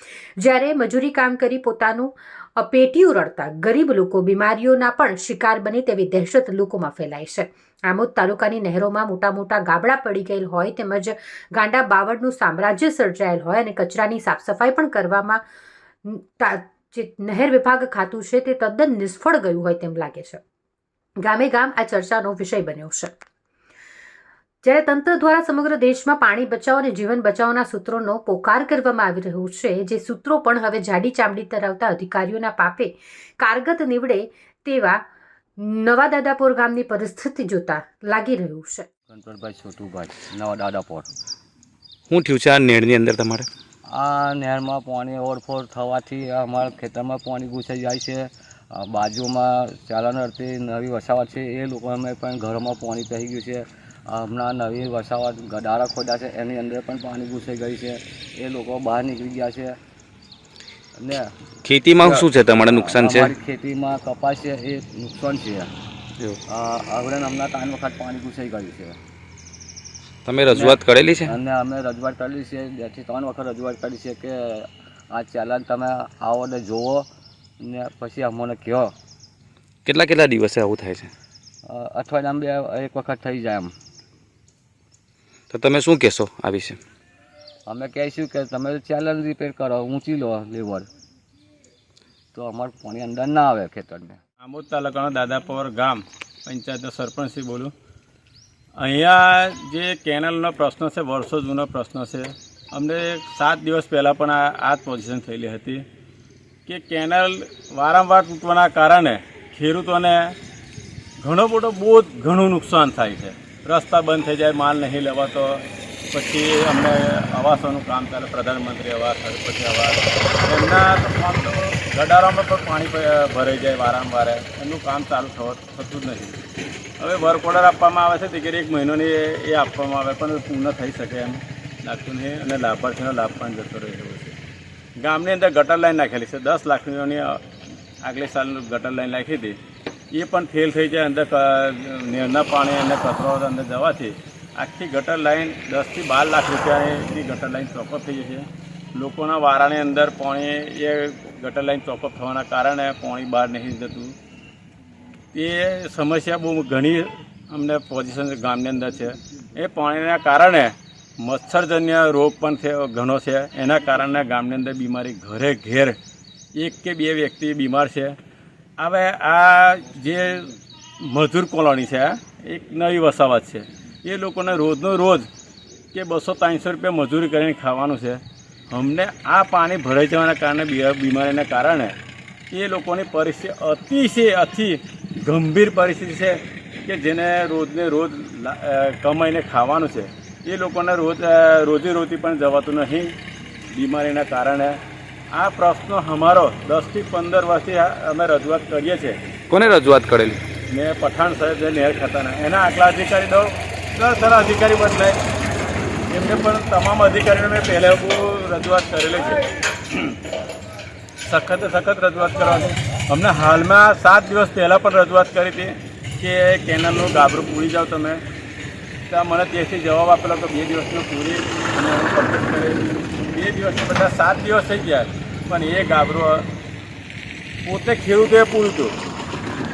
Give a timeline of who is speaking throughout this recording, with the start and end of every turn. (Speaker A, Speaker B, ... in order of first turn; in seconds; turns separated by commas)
Speaker A: 0.4-15.4, Speaker A: 16.0-20.4, Speaker A: 21.2-23.1, Speaker A: 24.6-35.0, Speaker A: 35.6-38.9, Speaker B: 39.1-41.1, Speaker C: 42.1-43.5, Speaker B: 43.9-59.8, Speaker B: 61.0-61.3, Speaker C: 61.6-63.3, Speaker B: 62.0-65.7, Speaker B: 66.5-69.0, Speaker C: 70.2-71.3, Speaker B: 71.2-77.1, Speaker B: 77.6-78.9, Speaker C: 79.8-81.1, Speaker B: 81.7-83.7, Speaker C: 85.5-86.8, Speaker B: 87.7-90.9, Speaker B: 92.3-94.2, Speaker D: 94.4-97.7, Speaker D: 98.8-105.8, Speaker D: 106.7-110.3, Speaker D: 111.2-126.4, Speaker D: 127.0-134.4, Speaker D: 135.0-137.4, Speaker D: 138.0-139.6, Speaker D: 140.1-154.2, Speaker D: 155.3-165.9, Speaker D: 166.5-168.2, Speaker D: 168.8-175.3, Speaker D: 175.9-181.9, Speaker D: 182.5-193.1, Speaker D: 193.7-194.8, Speaker D: 195.3-199.2, Speaker C: 199.5-200.4, Speaker D: 200.7-205.2, Speaker D: 206.1-210.2, Speaker D: 211.2-218.2, Speaker D: 219.1-226.5, Speaker D: 227.6-228.9